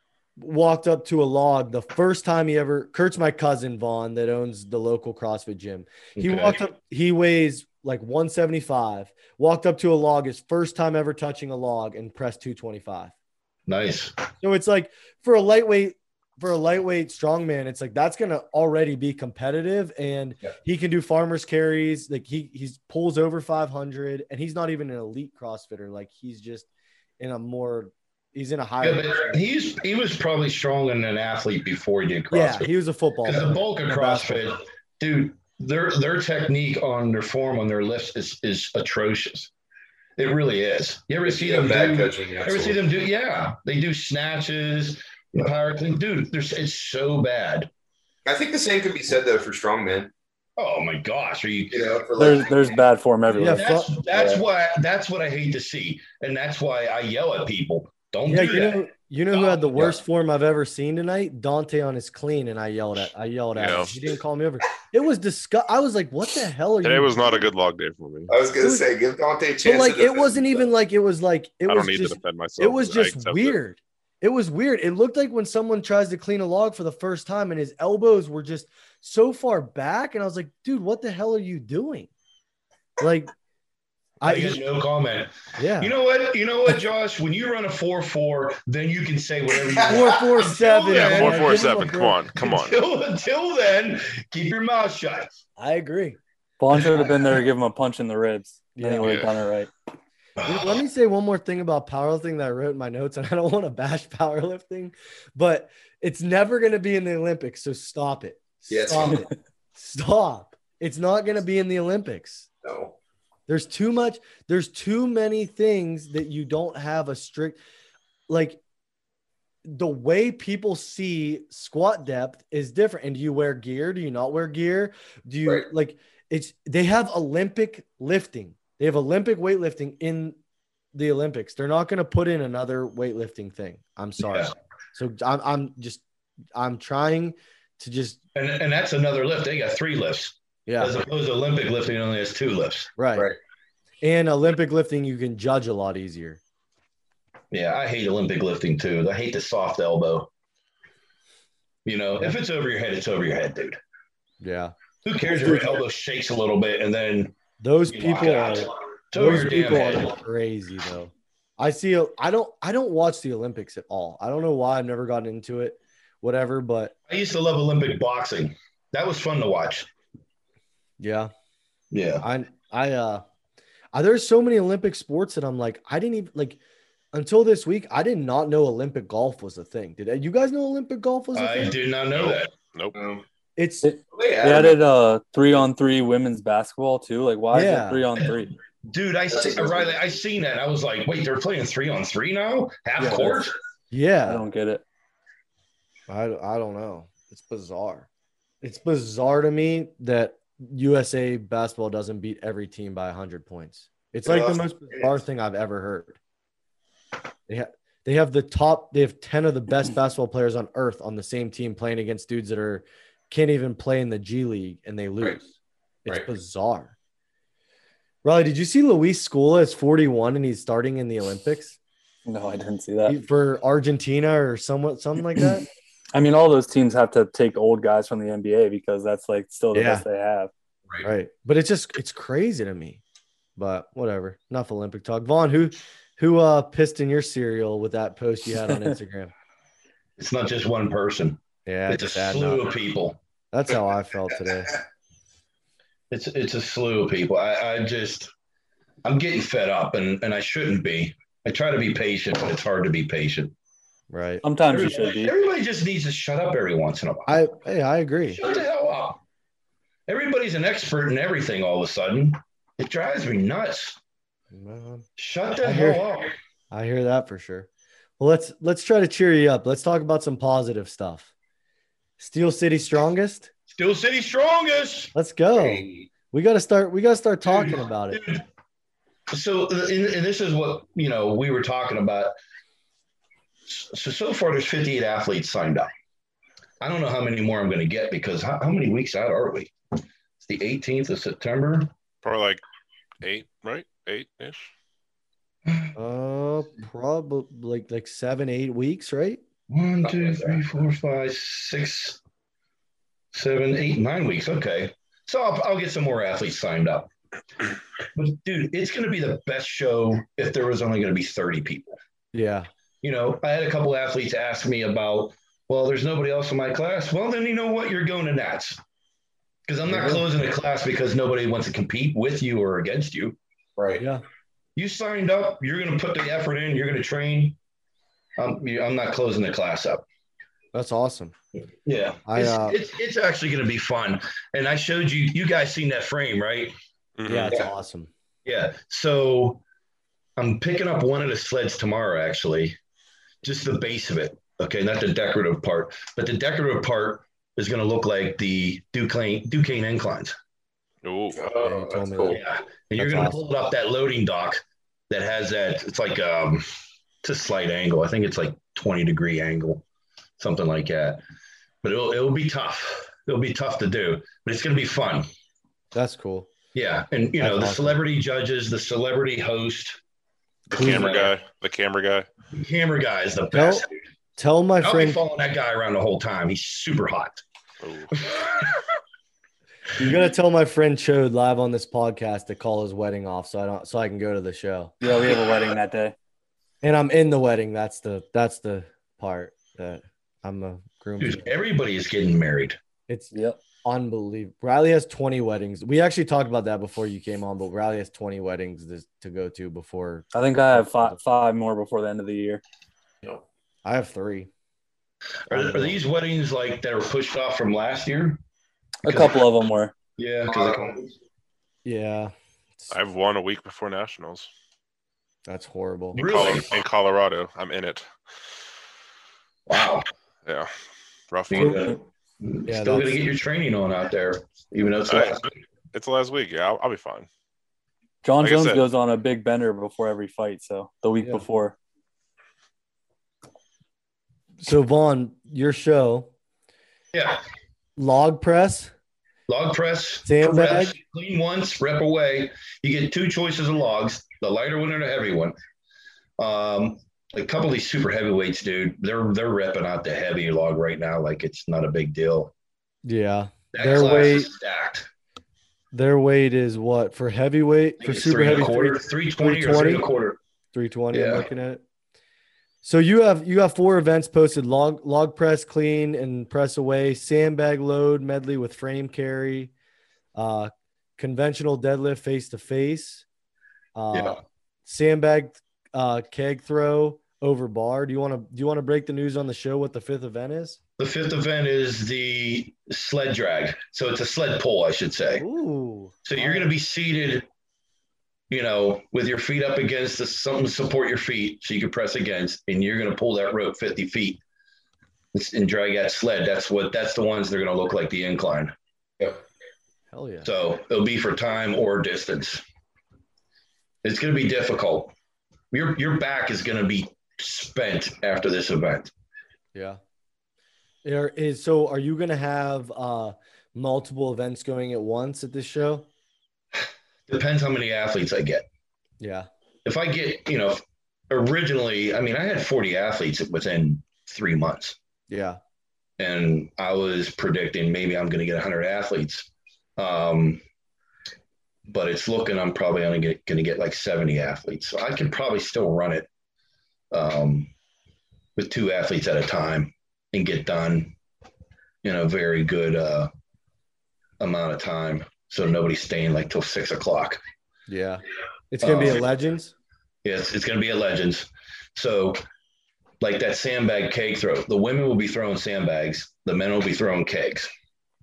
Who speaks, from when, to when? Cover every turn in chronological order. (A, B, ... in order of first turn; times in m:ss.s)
0:00.4-0:13.1 A
0:06.2-0:06.6 B
0:13.7-0:14.1 B
0:14.4-0:26.7 A
0:27.2-0:29.4 A
0:28.8-0:32.7 B
0:32.3-0:34.6 A
0:33.2-0:39.5 B
0:40.2-0:47.7 B
0:41.2-0:42.8 C
0:48.2-0:50.1 C
0:50.6-0:51.9 B
0:51.7-0:52.8 C
0:52.2-0:53.7 D
0:53.4-0:53.9 A
0:53.4-0:58.8 B
0:54.1-0:54.4 C
0:58.2-1:07.4 A
1:03.6-1:04.0 E
1:06.8-1:08.3 E
1:08.3-1:10.7 C
1:08.6-1:08.9 A
1:09.6-1:22.1 A
1:11.7-1:13.6 E
1:23.0-1:23.3 A
1:24.2-1:24.6 A
1:24.2-1:31.7 B
1:25.6-1:25.9 A
1:29.7-1:30.2 C
1:29.9-1:32.2 A
1:30.9-1:32.8 E
1:32.4-1:35.4 B
1:35.6-1:36.2 A
1:36.6-1:39.7 D
1:38.8-1:39.1 A
1:39.0-1:39.3 E
1:40.4-1:40.8 B
1:40.4-1:52.5 A
1:48.7-1:49.3 C
1:52.6-1:53.0 C
1:53.5-1:57.6 A
1:58.3-1:58.6 A
1:59.7-2:10.4 A
2:10.9-2:16.0 A
2:14.3-2:14.5 B
2:16.6-2:18.2 A
2:18.4-2:22.9 B
2:20.7-2:21.0 A
2:23.0-2:23.3 A
2:24.0-2:26.4 A
2:27.5-2:30.3 B
2:31.8-2:33.8 B
2:34.4-2:35.8 A
2:35.0-2:40.1 B
2:37.6-2:47.0 A
2:47.1-2:49.9 B
2:51.0-2:51.3 A
2:51.9-2:52.2 B
2:52.2-2:53.2 A
2:53.9-2:56.6 A
2:57.1-3:01.8 A
3:01.3-3:02.5 B
3:03.0-3:03.2 C
3:03.6-3:03.9 A
3:03.8-3:08.6 D
3:04.1-3:04.8 C
3:07.5-3:08.0 A
3:08.9-3:13.6 B
3:09.3-3:10.0 C
3:13.9-3:14.4 A
3:14.3-3:14.8 D
3:16.1-3:18.1 A
3:18.6-3:26.2 A
3:24.2-3:25.2 C
3:27.5-3:35.5 A
3:36.0-3:36.9 A
3:38.2-3:41.8 A
3:42.2-3:43.2 D
3:43.1-3:45.7 A
3:46.1-3:50.5 D
3:49.7-3:50.0 A
3:51.0-3:53.0 A
3:53.6-3:59.3 A
4:00.2-4:03.2 B
4:01.7-4:02.7 A
4:03.5-4:04.8 A
4:06.1-4:08.3 B
4:09.0-4:13.5 B
4:14.1-4:14.4 A
4:14.4-4:15.3 D
4:14.7-4:17.4 B
4:17.3-4:18.4 A
4:18.3-4:19.2 B
4:20.1-4:24.0 B
4:24.5-4:25.1 A
4:25.2-4:26.4 B
4:25.6-4:26.0 A
4:26.7-4:27.7 A
4:28.2-4:31.3 A
4:32.2-4:33.5 A
4:33.7-4:35.1 B
4:35.1-4:38.2 A
4:35.5-4:36.1 C
4:37.5-4:38.4 B
4:39.3-4:42.3 B
4:43.7-4:45.9 B
4:46.8-4:49.7 B
4:50.4-4:51.9 B
4:52.2-4:52.6 E
4:53.2-4:54.7 E
4:55.7-4:55.9 B
4:56.0-4:59.4 A
4:59.7-5:02.2 B
5:00.0-5:00.6 C
5:03.3-5:07.1 B
5:08.1-5:12.0 B
5:12.3-5:12.7 A
5:13.0-5:18.8 B
5:19.7-5:23.4 B
5:19.9-5:20.2 A
5:23.8-5:24.0 C
5:24.0-5:24.2 A
5:24.8-5:27.6 B
5:28.4-5:30.0 B
5:30.7-5:31.3 A
5:31.8-5:36.8 B
5:32.2-5:32.8 A
5:37.2-5:37.6 E
5:37.2-5:38.1 A
5:38.4-5:39.6 B
5:40.4-5:42.8 B
5:43.4-5:50.4 B
5:51.0-5:51.4 E
5:51.3-5:52.4 C
5:51.6-5:52.4 A
5:52.3-5:56.7 B
5:53.0-5:53.4 A
5:57.2-5:59.8 B
6:00.4-6:01.2 B
6:01.8-6:05.3 B
6:06.0-6:06.5 A
6:06.7-6:10.0 B
6:07.4-6:08.0 A
6:10.7-6:12.3 E
6:10.7-6:11.3 B
6:10.8-6:11.2 A
6:12.5-6:14.0 B
6:13.5-6:13.9 A
6:14.4-6:15.2 A
6:14.8-6:17.4 B
6:17.8-6:18.1 E
6:18.1-6:18.8 B
6:20.0-6:24.9 A
6:25.0-6:26.2 D
6:26.8-6:31.5 A
6:31.2-6:32.8 B
6:33.3-6:33.6 D
6:33.8-6:41.2 A
6:40.3-6:42.6 D
6:43.8-6:44.5 A
6:45.5-6:48.4 B
6:45.5-6:46.0 A
6:49.0-6:49.9 D
6:49.0-6:49.4 B
6:50.2-6:51.1 B
6:50.5-6:51.0 C
6:51.8-6:52.9 A
6:52.9-6:54.5 E
6:55.5-6:56.2 A
6:56.2-6:56.8 B
6:56.2-6:58.1 E
6:59.7-7:00.0 B
7:00.4-7:00.7 E
7:01.3-7:01.9 E
7:01.5-7:05.5 B
7:01.6-7:01.9 A
7:02.7-7:03.2 A
7:05.1-7:05.4 E
7:05.9-7:07.3 E
7:08.2-7:11.8 D
7:08.4-7:08.8 E
7:14.6-7:16.3 A
7:17.1-7:17.4 B
7:18.0-7:18.9 A
7:19.5-7:25.5 B
7:20.2-7:20.9 A
7:26.4-7:32.5 B
7:33.0-7:34.5 A
7:33.7-7:35.1 B
7:35.9-7:40.0 A
7:38.0-7:40.4 B
7:40.7-7:41.8 A
7:41.1-7:41.5 B
7:42.8-7:49.7 A
7:50.4-7:53.2 A
7:54.0-8:00.8 A
7:54.1-7:54.4 B
8:01.0-8:05.4 B
8:05.4-8:06.7 A
8:06.2-8:07.5 B
8:08.5-8:14.4 B
8:15.3-8:18.7 B
8:20.1-8:20.5 A
8:20.4-8:22.6 B
8:24.0-8:25.1 B
8:25.7-8:29.1 B
8:29.7-8:30.0 A
8:31.0-8:36.1 A
8:37.3-8:38.7 B
8:39.2-8:39.5 A
8:39.8-8:45.0 B
8:45.3-8:45.6 A
8:46.2-8:50.6 B
8:51.9-8:56.3 B
8:57.1-8:57.7 B
8:58.6-9:01.1 B
9:02.0-9:03.3 B
9:04.4-9:07.4 B
9:07.9-9:09.7 A
9:08.8-9:09.2 B
9:10.2-9:12.4 B
9:13.2-9:17.7 B